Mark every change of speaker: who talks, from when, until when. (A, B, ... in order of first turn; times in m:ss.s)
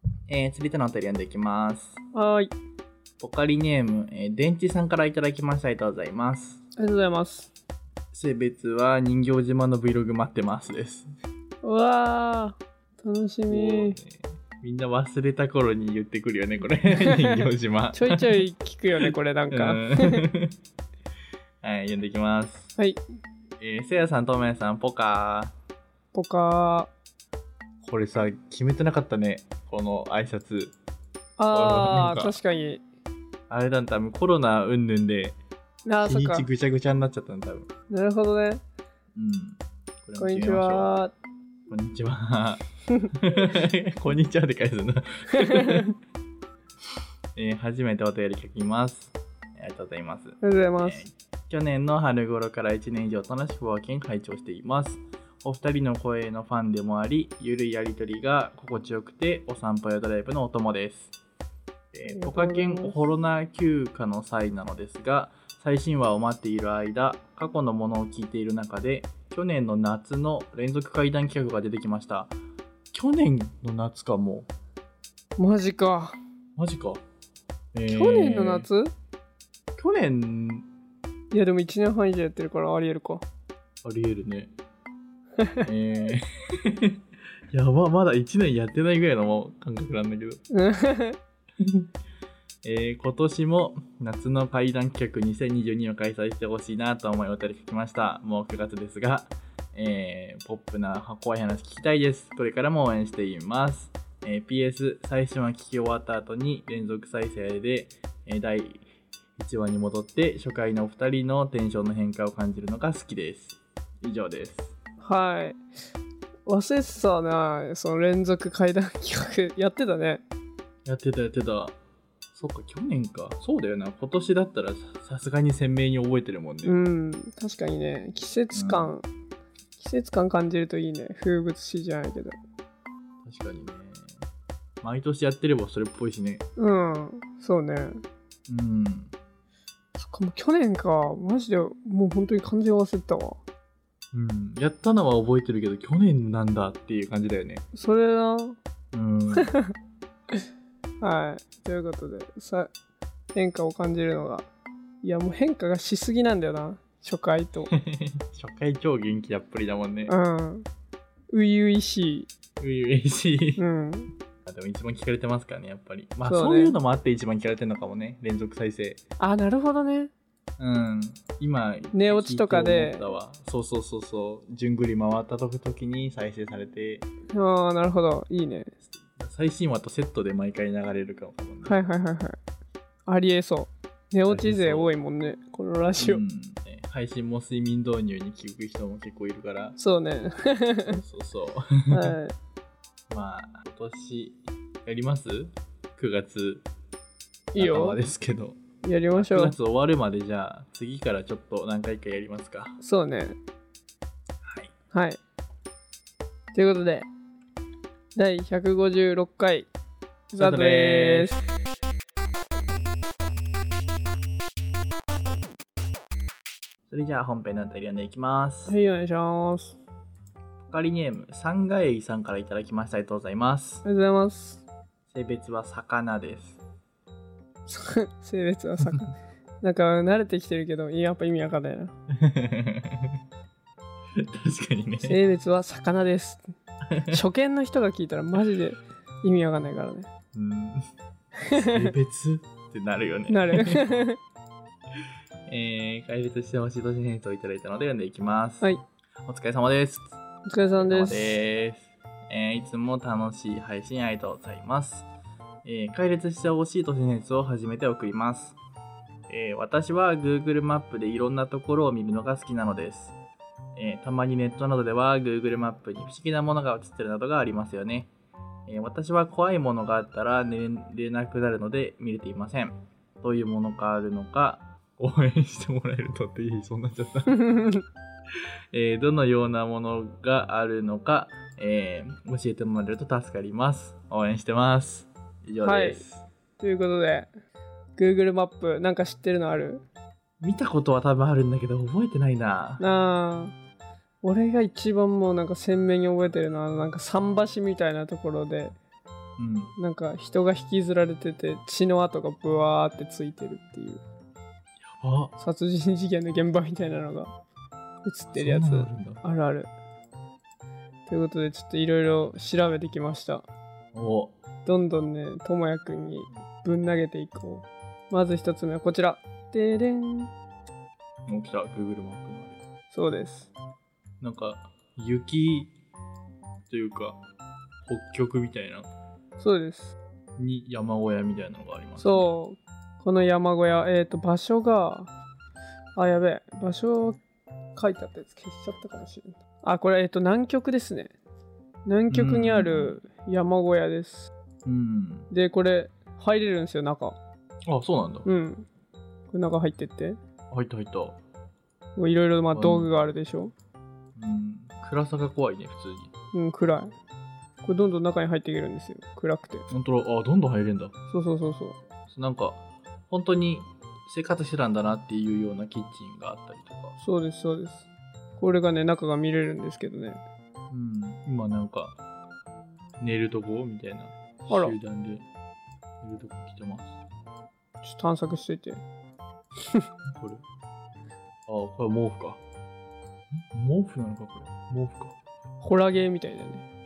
0:00.3-0:02.0 A
0:02.1-0:02.5 B
0:03.2-0:06.6 A
0:06.8-0:07.5 B
0:08.1-0:11.1 A
0:11.6-0:14.0 B
0:13.5-0:18.4 A
0:16.9-0:20.2 B
0:19.0-0:20.5 A
0:21.6-0:22.7 A
0:23.6-0:25.5 A
0:26.1-0:26.9 B
0:27.8-0:30.7 A
0:31.4-0:32.8 B
0:31.5-0:32.4 A
0:33.5-0:35.4 A
0:35.8-0:36.5 B
0:36.0-0:37.7 A
0:37.9-0:38.6 B
0:39.1-0:40.9 A
0:40.2-0:41.1 B
0:41.7-0:42.6 A
0:43.1-0:45.9 A
0:45.3-0:45.9 B
0:47.4-1:01.1 A
0:50.4-0:51.0 B
1:01.9-1:12.3 A
1:02.0-1:03.0 B
1:12.9-1:14.5 A
1:15.4-1:16.2 B
1:16.6-1:17.0 A
1:17.7-1:18.7 A
1:17.9-1:18.9 B
1:19.8-1:20.6 A
1:21.3-1:23.2 B
1:23.8-1:24.5 A
1:25.4-1:25.7 B
1:25.6-1:30.4 A
1:30.5-1:31.2 B
1:31.6-1:31.9 A
1:32.6-1:48.8 A
1:49.4-1:54.7 A
1:55.0-1:55.6 B
1:56.4-2:00.2 B
2:00.8-2:01.8 A
2:02.3-2:06.8 A
2:06.6-2:09.0 B
2:08.5-2:08.9 A
2:09.8-2:12.4 B
2:13.2-2:14.1 A
2:14.8-2:16.4 A
2:16.6-2:18.0 B
2:18.5-2:19.1 A
2:20.0-2:23.4 B
2:24.1-2:27.6 A
2:27.7-2:28.6 B
2:28.9-2:29.5 A
2:29.3-2:29.7 B
2:31.0-2:32.7 B
2:33.3-2:34.5 B
2:35.0-2:37.7 B
2:37.7-2:40.1 A
2:40.1-2:40.7 B
2:41.3-2:42.3 B
2:42.6-2:43.6 A
2:43.6-2:44.1 B
2:44.4-2:49.0 A
2:46.2-2:46.7 B
2:49.2-2:50.1 B
2:50.6-2:57.0 A
2:51.9-2:53.0 B
2:57.3-2:58.7 B
2:59.0-3:01.8 A
3:01.6-3:02.4 B
3:03.1-3:06.2 B
3:04.3-3:04.9 A
3:06.0-3:09.8 A
3:09.8-3:11.0 B
3:10.9-3:12.1 A
3:11.9-3:12.3 B
3:13.1-3:16.6 A
3:17.5-3:18.0 B
3:17.6-3:18.6 A
3:18.8-3:19.5 B
3:19.1-3:22.8 A
3:22.8-3:23.4 B
3:24.4-3:24.7 A
3:24.9-3:25.2 B
3:26.5-3:27.1 B
3:28.1-3:29.7 B
3:30.3-3:31.4 B
3:30.4-3:31.3 A
3:36.9-3:38.7 A
3:38.6-3:39.8 B
3:40.7-3:43.8 A
3:43.8-3:44.6 B
3:45.1-3:46.6 A
3:47.7-3:51.9 B
3:52.1-3:53.2 A
3:54.2-3:55.2 A
3:55.0-3:56.4 B
3:56.9-3:57.2 A
3:57.0-4:00.1 B
4:00.3-4:00.8 A
4:01.4-4:01.9 B
4:01.5-4:03.8 A
4:03.3-4:04.2 B
4:05.5-4:08.7 A
4:09.2-4:10.1 A
4:10.4-4:11.3 B
4:10.8-4:15.1 A
4:15.6-4:18.6 A
4:19.3-4:23.2 A
4:23.7-4:28.1 A
4:28.7-4:37.4 A
4:37.3-4:37.8 B
4:38.7-4:46.2 A
4:45.6-4:46.0 B
4:46.6-4:47.3 B
4:48.0-4:49.8 B
4:50.4-4:52.8 A
4:52.8-4:53.6 B
4:54.2-4:58.7 B
4:59.4-4:59.7 A
4:59.8-5:04.0 B
5:04.8-5:05.3 A
5:05.4-5:07.3 B
5:08.0-5:09.7 B
5:08.3-5:09.2 A
5:11.1-5:13.4 B
5:13.9-5:14.3 A
5:14.6-5:20.3 B
5:21.3-5:22.6 A
5:22.9-5:23.5 B
5:24.2-5:25.7 A
5:26.7-5:27.2 A
5:27.8-5:28.9 A
5:29.4-5:29.9 B
5:30.4-5:32.3 A
5:32.0-5:35.1 B
5:36.0-5:37.2 B
5:37.8-5:41.1 B
5:41.8-5:44.3 B
5:42.1-5:43.0 A
5:44.6-5:45.3 A
5:45.3-5:47.2 B
5:47.6-5:48.3 A
5:48.2-5:48.7 B
5:49.3-5:50.2 B
5:50.5-5:51.2 A
5:52.0-5:53.5 B
5:52.5-5:52.9 A
5:54.2-5:56.1 A
5:56.3-5:56.9 B
5:57.6-5:59.7 B
5:59.7-6:00.9 A
6:01.1-6:01.8 B
6:02.1-6:07.0 A
6:07.0-6:07.8 B
6:08.4-6:10.2 B
6:10.7-6:12.0 A
6:13.0-6:15.2 A
6:14.5-6:14.7 B
6:16.0-6:17.0 A
6:17.8-6:18.8 B
6:20.0-6:20.4 A
6:21.5-6:22.4 A
6:23.3-6:25.2 A
6:25.6-6:26.6 B